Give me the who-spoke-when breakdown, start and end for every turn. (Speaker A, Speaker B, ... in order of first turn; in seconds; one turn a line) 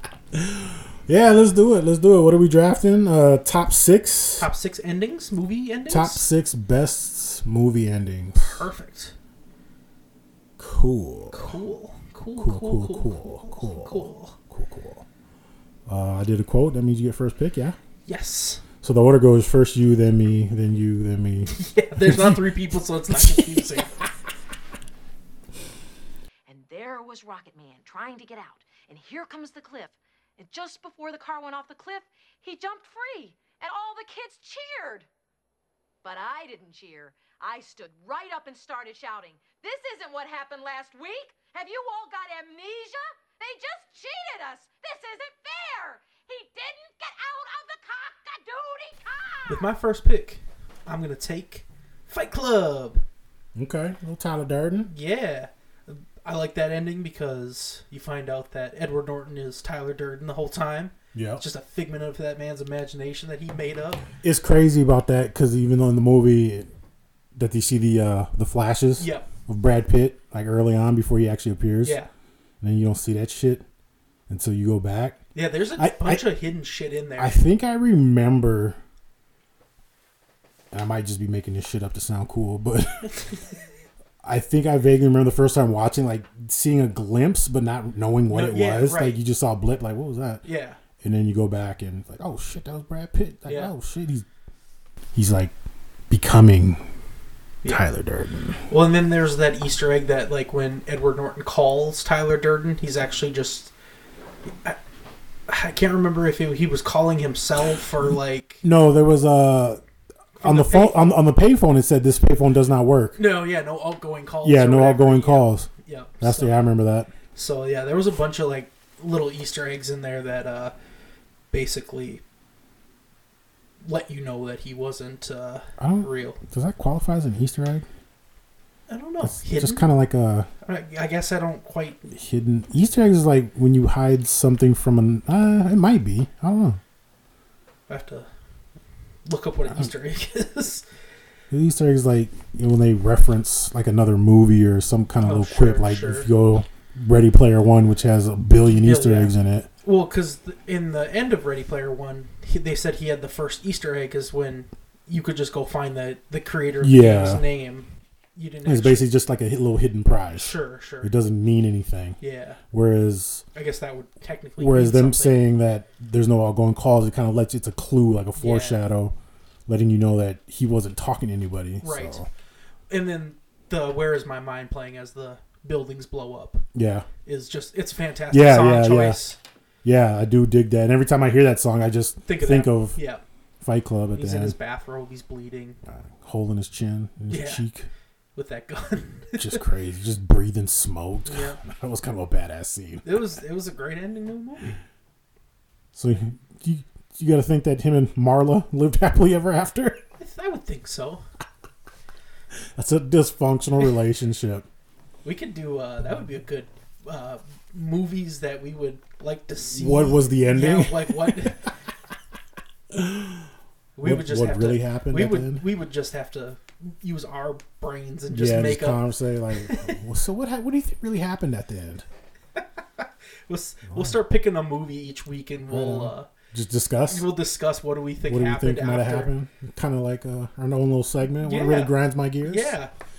Speaker A: 0.3-4.5
Speaker B: 4.4-6.2
Speaker A: 5.9-8.6
Speaker B: 8.6-9.1
Speaker A: 10.6-11.6
Speaker B: 11.3-14.4
Speaker A: 12.4-15.1
Speaker A: 15.9-17.8
Speaker B: 18.1-18.6
Speaker A: 18.8-23.8
Speaker B: 21.5-24.0
Speaker C: 26.5-35.1
Speaker C: 36.0-49.7
Speaker B: 49.5-53.0
Speaker A: 53.6-54.9
Speaker B: 54.9-64.1
Speaker A: 61.1-61.4
Speaker A: 64.2-66.7
Speaker A: 67.3-72.0
Speaker B: 69.0-69.3
Speaker B: 71.8-72.1
Speaker A: 72.6-73.7
Speaker A: 74.3-75.2
Speaker B: 75.3-77.4
Speaker A: 75.8-76.3
Speaker A: 77.2-78.8
Speaker A: 80.7-83.3
Speaker A: 84.2-90.4
Speaker B: 88.3-89.2
Speaker B: 90.4-90.8
Speaker A: 91.0-94.3
Speaker B: 93.5-93.7
Speaker A: 95.2-95.5
Speaker A: 96.1-96.9
Speaker A: 97.6-98.7
Speaker B: 98.7-103.7
Speaker B: 104.5-104.8
Speaker B: 105.5-108.6
Speaker A: 108.6-109.8
Speaker B: 110.4-111.2
Speaker A: 110.4-113.2
Speaker B: 113.2-116.6
Speaker A: 114.4-115.7
Speaker A: 116.2-117.1
Speaker B: 117.3-120.7
Speaker B: 121.5-122.2
Speaker B: 123.8-126.4
Speaker A: 125.8-127.9
Speaker B: 128.9-129.9
Speaker A: 129.2-130.5
Speaker B: 130.6-132.0
Speaker A: 132.1-136.8
Speaker B: 137.9-138.3
Speaker B: 139.3-140.8
Speaker A: 141.5-149.7
Speaker B: 145.2-146.3
Speaker B: 148.8-159.1
Speaker A: 156.8-157.4
Speaker A: 158.7-162.2
Speaker B: 160.3-161.1
Speaker B: 162.2-162.6
Speaker A: 162.7-163.4
Speaker B: 163.5-165.5
Speaker A: 164.6-169.2
Speaker B: 168.4-168.8
Speaker A: 169.7-172.3
Speaker B: 171.8-172.2
Speaker B: 172.9-176.7
Speaker A: 176.8-177.1
Speaker B: 177.3-179.4
Speaker A: 178.3-179.2
Speaker A: 179.8-183.0
Speaker B: 182.2-183.2
Speaker A: 183.6-184.6
Speaker B: 184.2-185.8
Speaker A: 185.9-187.9
Speaker B: 187.3-187.6
Speaker B: 188.4-189.6
Speaker A: 189.4-193.2
Speaker B: 191.3-191.6
Speaker B: 193.0-194.8
Speaker A: 195.9-200.0
Speaker B: 200.2-201.2
Speaker A: 202.8-204.7
Speaker B: 205.2-211.7
Speaker A: 209.7-211.6
Speaker A: 212.9-213.5
Speaker B: 214.0-220.0
Speaker A: 214.0-215.7
Speaker A: 218.3-222.1
Speaker B: 222.6-226.3
Speaker A: 223.9-224.2
Speaker A: 225.7-227.3
Speaker B: 227.1-229.3
Speaker A: 228.3-232.8
Speaker B: 231.4-232.9